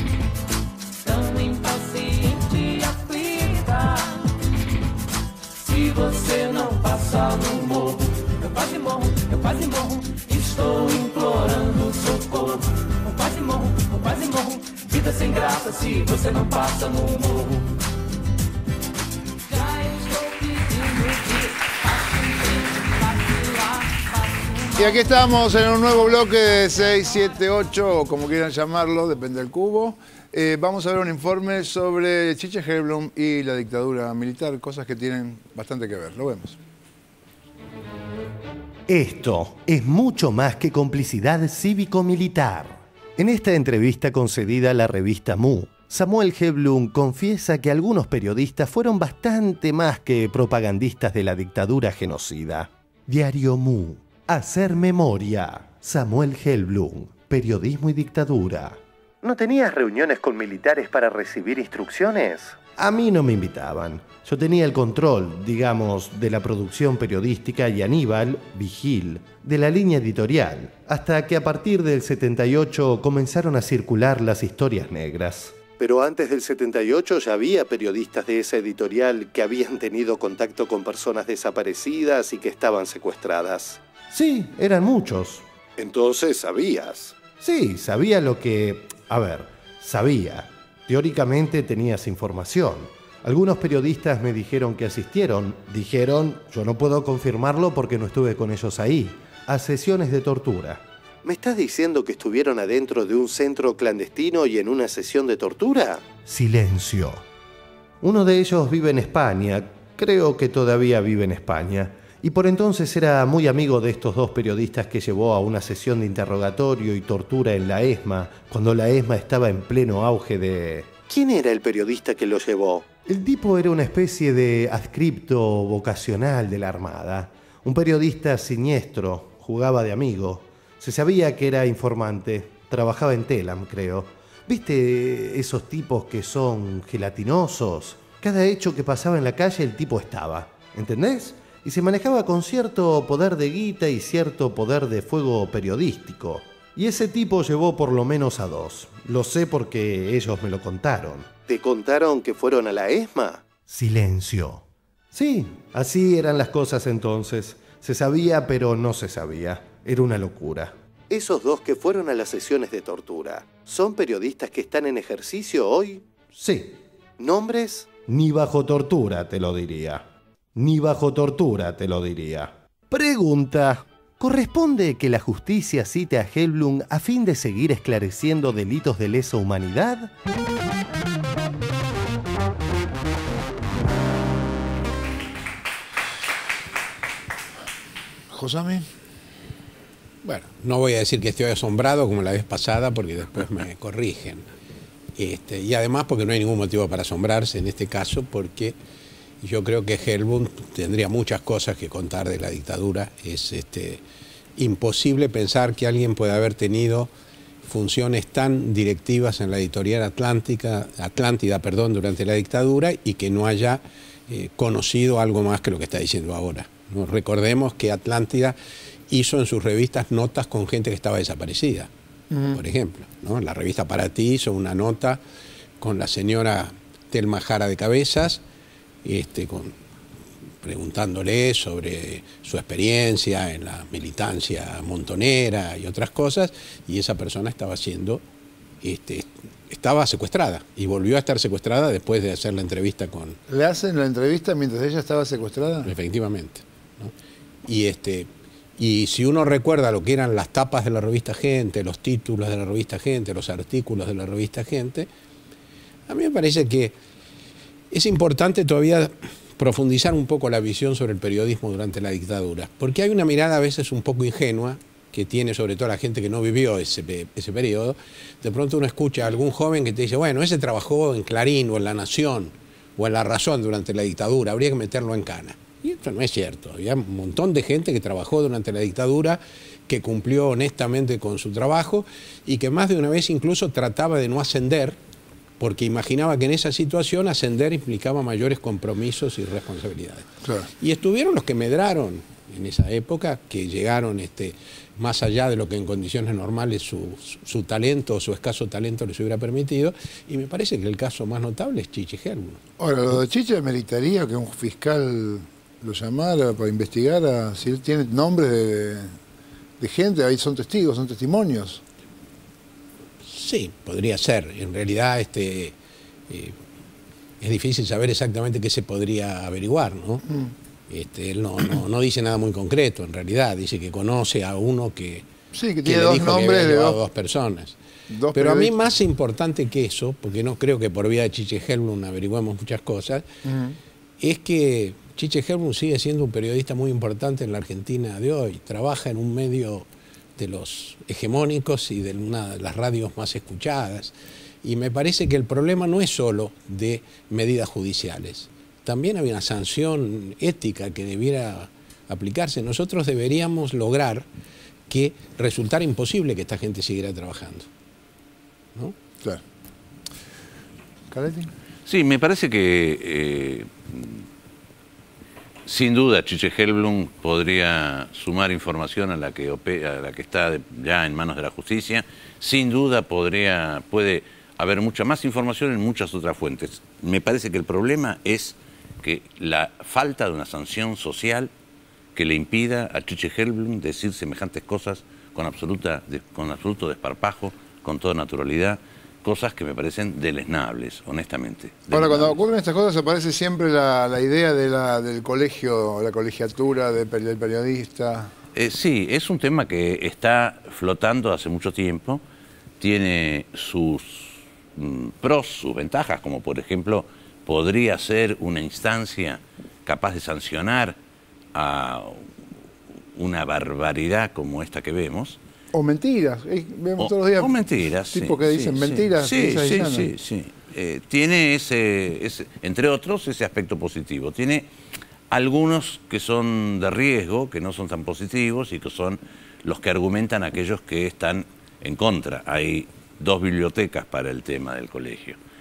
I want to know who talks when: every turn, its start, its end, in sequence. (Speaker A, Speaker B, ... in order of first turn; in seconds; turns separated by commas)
Speaker A: 1.0-4.3, Speaker A: 5.6-17.7, Speaker A: 19.5-24.6, Speaker B: 24.8-36.6, Speaker C: 38.9-107.2, Speaker C: 108.0-170.0, Speaker C: 170.6-180.1, Speaker B: 188.3-188.9, Speaker D: 190.2-194.4, Speaker D: 195.2-198.8, Speaker D: 199.4-204.0, Speaker D: 204.6-207.1, Speaker D: 207.6-218.6, Speaker D: 219.1-221.9, Speaker D: 222.5-225.2, Speaker D: 225.8-228.4, Speaker D: 229.0-229.7, Speaker D: 230.6-238.2, Speaker D: 238.8-243.4, Speaker B: 243.5-245.9, Speaker D: 245.8-247.1, Speaker D: 247.7-255.1, Speaker D: 256.1-256.9, Speaker D: 257.9-285.0, Speaker D: 285.6-302.6, Speaker B: 302.8-309.1, Speaker B: 309.8-311.8, Speaker D: 313.2-315.8, Speaker D: 316.3-316.5, Speaker D: 317.4-320.2, Speaker D: 320.9-325.2, Speaker B: 325.5-327.0, Speaker D: 325.8-327.8, Speaker B: 328.1-328.8, Speaker D: 328.3-333.3, Speaker B: 333.5-333.8, Speaker D: 334.2-354.3, Speaker D: 354.9-357.7, Speaker B: 361.1-361.5, Speaker E: 361.9-364.2, Speaker E: 365.7-381.5, Speaker E: 382.1-392.4, Speaker B: 391.9-398.3, Speaker E: 398.5-402.2, Speaker E: 402.8-411.0, Speaker E: 411.5-412.3, Speaker E: 413.2-415.4, Speaker B: 415.7-420.1, Speaker E: 417.0-424.7, Speaker E: 425.3-435.4